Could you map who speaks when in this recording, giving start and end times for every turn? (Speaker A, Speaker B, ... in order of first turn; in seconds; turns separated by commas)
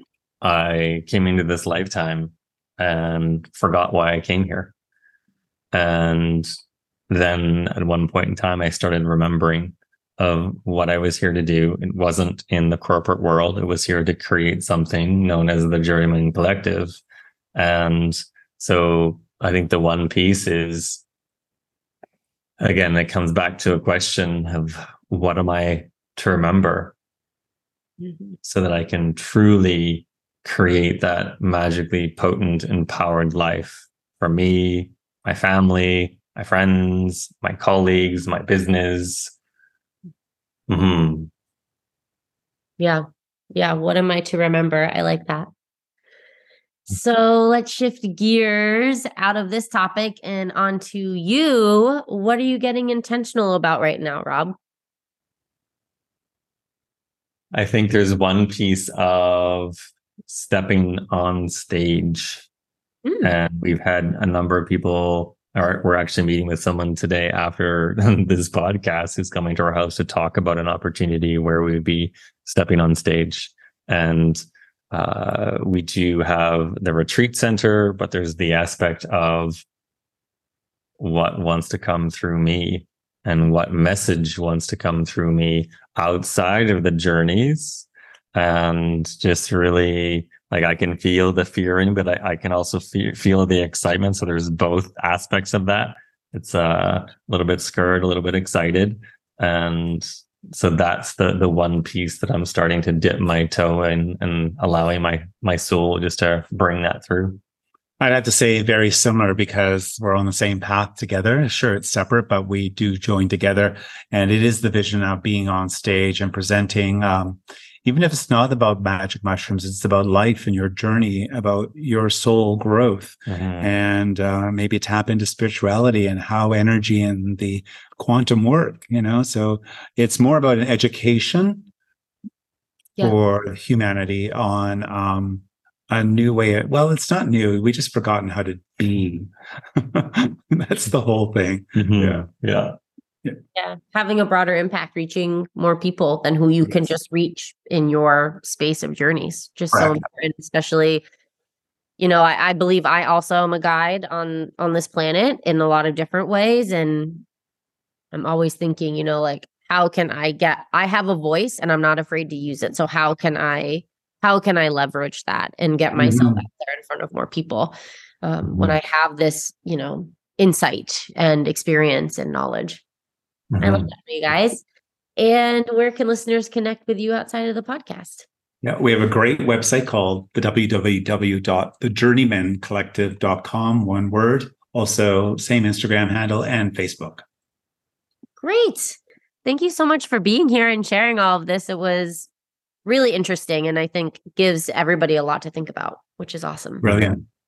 Speaker A: 0.4-4.7, Speaker A: 5.7-6.5, Speaker A: 7.1-17.0, Speaker A: 17.5-21.0, Speaker A: 22.6-26.9, Speaker A: 28.4-39.3, Speaker A: 40.7-41.3, Speaker B: 42.8-45.5, Speaker B: 46.9-54.5, Speaker A: 57.5-62.5, Speaker B: 63.0-63.3, Speaker A: 63.2-79.6, Speaker A: 81.0-107.4, Speaker C: 108.0-131.7, Speaker A: 123.3-123.7, Speaker C: 133.0-142.3, Speaker A: 141.7-142.8, Speaker B: 143.5-151.0, Speaker B: 152.0-157.2, Speaker B: 158.1-172.8, Speaker C: 165.9-166.4, Speaker A: 173.5-173.9, Speaker B: 173.6-174.6, Speaker B: 175.2-178.2, Speaker C: 178.6-187.2, Speaker B: 188.4-192.3, Speaker B: 192.8-196.8, Speaker C: 196.8-197.2, Speaker A: 196.8-197.2